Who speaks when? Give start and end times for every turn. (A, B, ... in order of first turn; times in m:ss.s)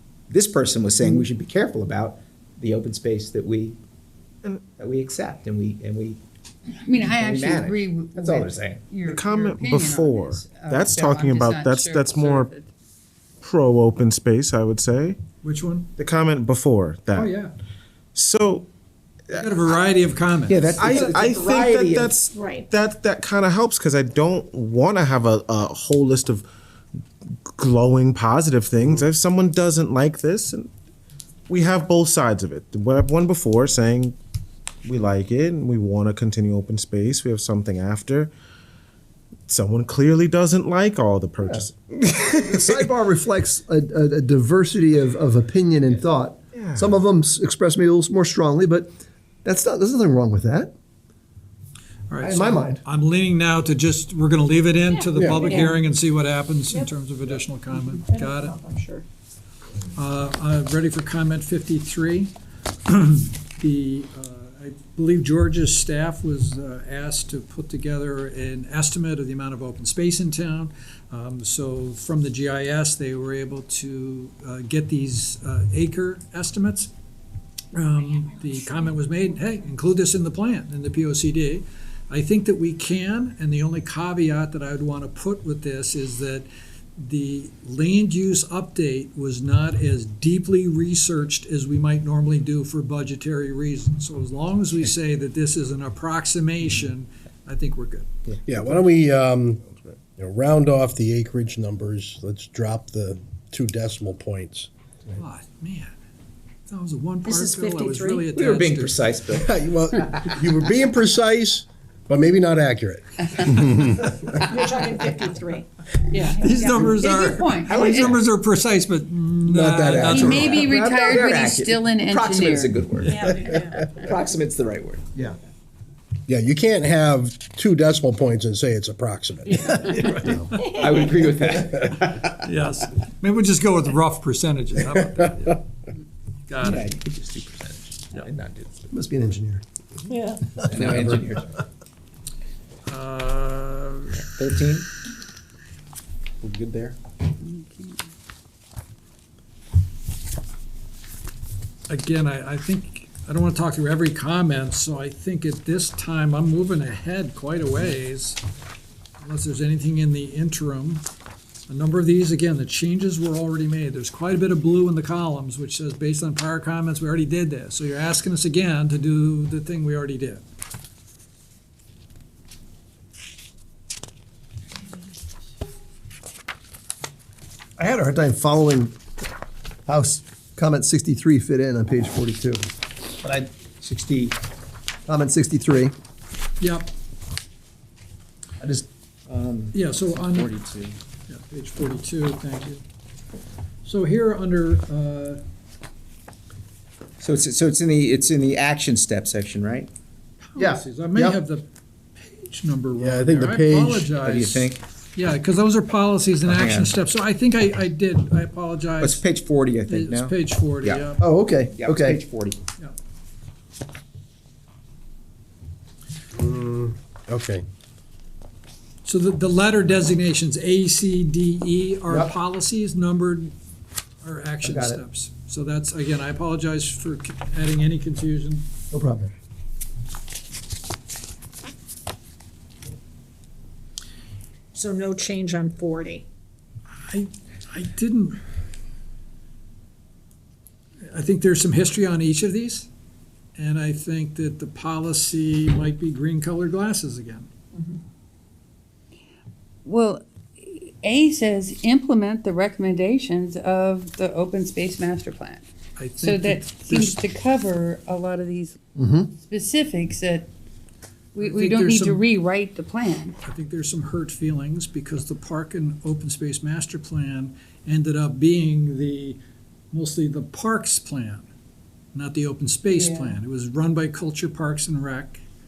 0:00.3-0:03.8 A
0:04.8-0:06.2 A
0:06.8-0:12.7 B
0:07.2-0:08.8 A
0:09.0-0:12.5 C
0:13.4-0:15.2 C
0:15.4-0:15.9 D
0:16.0-0:17.3 C
0:17.1-0:17.5 D
0:18.1-0:18.7 C
0:19.3-0:20.8 D
0:20.5-0:26.4 C
0:20.5-0:22.2 A
0:22.3-0:22.7 E
0:27.6-0:30.7 C
0:31.5-0:34.2 C
0:34.8-0:38.3 C
0:39.5-0:42.8 C
0:42.3-0:50.7 F
0:46.5-0:47.0 C
0:52.1-0:58.6 D
0:52.2-0:52.8 F
0:54.9-0:55.6 E
0:55.1-0:55.5 G
0:57.9-0:59.0 E
0:59.9-1:02.3 D
1:02.9-1:16.9 D
1:17.7-1:38.1 D
1:38.4-1:44.7 G
1:45.2-1:45.9 D
1:46.7-1:49.0 D
1:47.2-1:48.2 E
1:48.3-1:49.6 A
1:49.3-1:54.3 G
1:54.4-1:56.3 E
1:56.1-1:58.1 B
1:56.3-2:00.7 D
1:57.6-1:58.2 A
1:59.5-2:00.2 G
1:59.7-2:05.1 A
2:00.0-2:02.8 B
2:03.1-2:03.8 E
2:06.3-2:10.4 G
2:09.8-2:10.9 D
2:10.5-2:12.3 A
2:12.1-2:15.7 D
2:16.5-2:16.9 D
2:16.6-2:18.8 A
2:18.9-2:19.6 F
2:20.1-2:20.4 E
2:20.6-2:21.1 F
2:20.6-2:21.6 A
2:22.9-2:24.2 D
2:24.2-2:24.9 A
2:26.4-2:27.0 A
2:27.4-2:28.1 B
2:31.9-2:38.4 D
2:39.2-2:41.0 D
2:41.7-2:50.4 D
2:57.8-2:59.0 F
2:59.9-3:02.7 F
3:03.2-3:04.4 A
3:05.1-3:05.9 F
3:06.6-3:06.9 D
3:08.6-3:11.0 A
3:09.7-3:10.5 D
3:11.3-3:12.8 D
3:13.8-3:15.4 D
3:17.2-3:19.9 A
3:20.4-3:29.2 D
3:20.6-3:21.4 F
3:23.0-3:24.1 G
3:24.2-3:24.8 A
3:26.4-3:26.9 A
3:29.0-3:31.1 A
3:29.9-3:31.3 D
3:31.2-3:32.2 F
3:31.7-3:32.6 A
3:36.3-3:37.6 G
3:39.0-3:43.5 D
3:44.2-3:48.7 D
3:44.6-3:45.0 F
3:48.9-3:49.3 F
3:54.7-3:56.2 E
3:56.9-3:58.4 D
4:01.1-4:02.9 D
4:03.6-4:07.5 D
4:09.8-4:15.6 B
4:16.0-4:17.2 D
4:16.2-4:18.8 B
4:19.0-4:19.3 F
4:19.4-4:20.5 B
4:21.3-4:23.4 B
4:21.4-4:22.2 D
4:23.4-4:29.4 D
4:29.9-4:31.4 D
4:32.1-4:35.4 D
4:32.9-4:33.4 B